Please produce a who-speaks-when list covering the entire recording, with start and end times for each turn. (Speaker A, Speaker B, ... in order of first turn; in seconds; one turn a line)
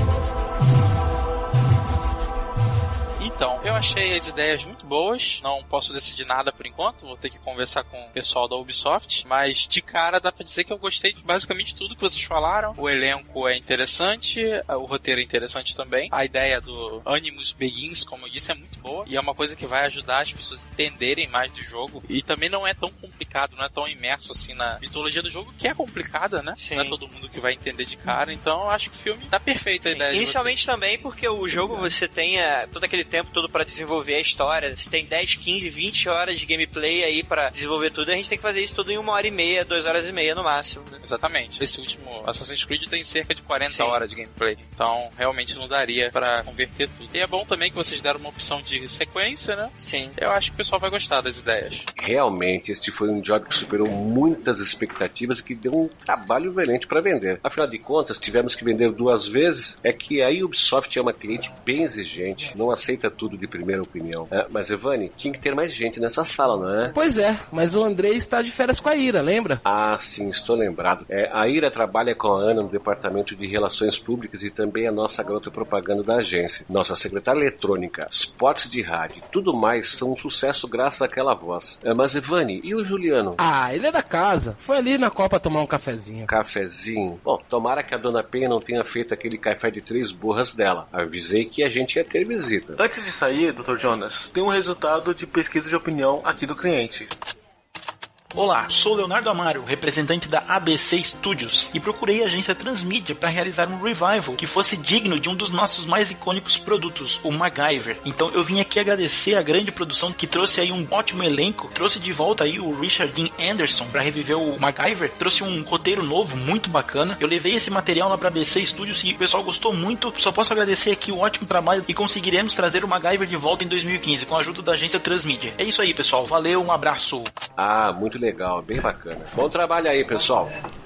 Speaker A: 3.2-30.6
Speaker B: 26.6-27.0
Speaker B: 29.9-41.0
Speaker A: 41.1-51.9
Speaker B: 43.7-44.0
Speaker C: 52.0-66.9
Speaker D: 66.9-69.6
Speaker C: 69.6-83.4
Speaker D: 83.4-86.3
Speaker C: 86.3-92.8
Speaker E: 92.8-97.1
Speaker F: 98.3-127.3
Speaker C: 127.6-130.6